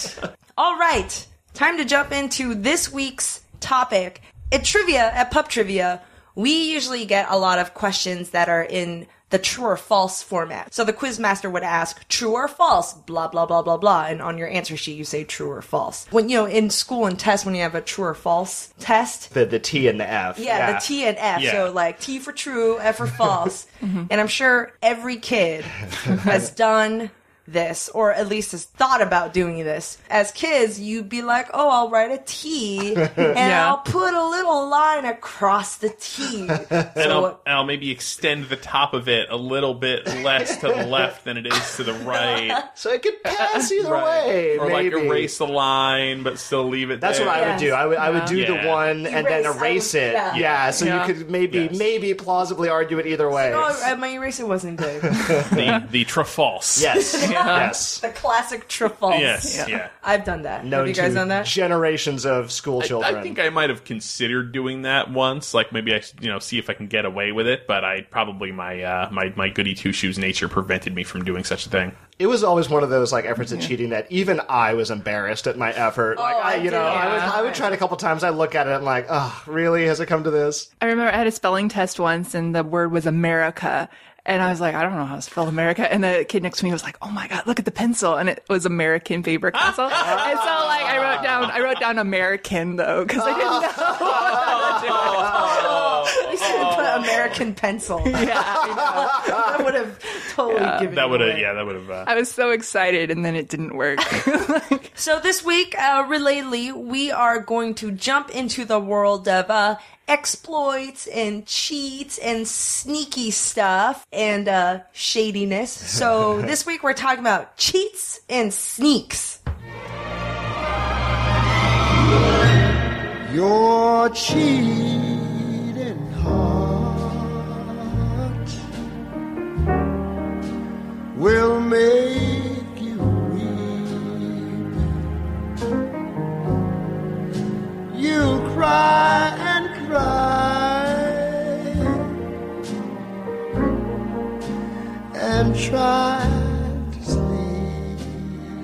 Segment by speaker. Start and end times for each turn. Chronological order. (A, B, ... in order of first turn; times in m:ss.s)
0:00.6-0:19.3 A
0:19.3-0:20.8 B
0:20.4-0:37.4 A
0:21.4-0:21.7 C
0:23.8-0:24.1 D
0:33.2-0:33.8 D
0:36.6-0:37.1 B
0:37.0-0:42.7 C
0:40.2-0:41.1 B
0:42.1-0:42.6 A
0:42.7-0:45.3 B
0:43.2-0:43.7 D
0:43.8-0:47.6 C
0:47.0-0:53.8 B
0:47.3-0:47.8 A
0:47.9-0:48.3 D
0:48.3-0:48.9 C
0:49.0-0:50.4 A
0:50.3-0:50.8 C
0:50.8-0:51.1 D
0:51.5-0:51.8 C
0:53.3-0:55.3 A
0:55.0-0:55.8 B
0:55.5-0:57.0 C
0:56.8-0:58.0 B
0:56.9-1:01.5 A
0:57.4-0:57.7 D
0:59.1-0:59.9 C
0:59.4-0:59.7 D
1:00.6-1:03.4 B
1:02.8-1:12.0 C
1:12.2-1:20.7 B
1:16.1-1:17.7 A
1:16.9-1:17.3 D
1:20.8-1:35.8 D
1:29.5-1:31.5 C
1:30.0-1:30.5 B
1:33.2-1:35.2 B
1:34.0-1:37.4 C
1:35.3-1:41.5 A
1:38.0-1:39.6 D
1:40.4-1:40.9 D
1:40.9-1:42.1 C
1:42.0-1:44.9 D
1:45.0-1:59.4 A
1:56.2-1:56.5 B
2:03.2-2:08.4 E
2:11.1-2:14.7 E
2:17.9-2:22.2 E
2:25.1-2:28.2 E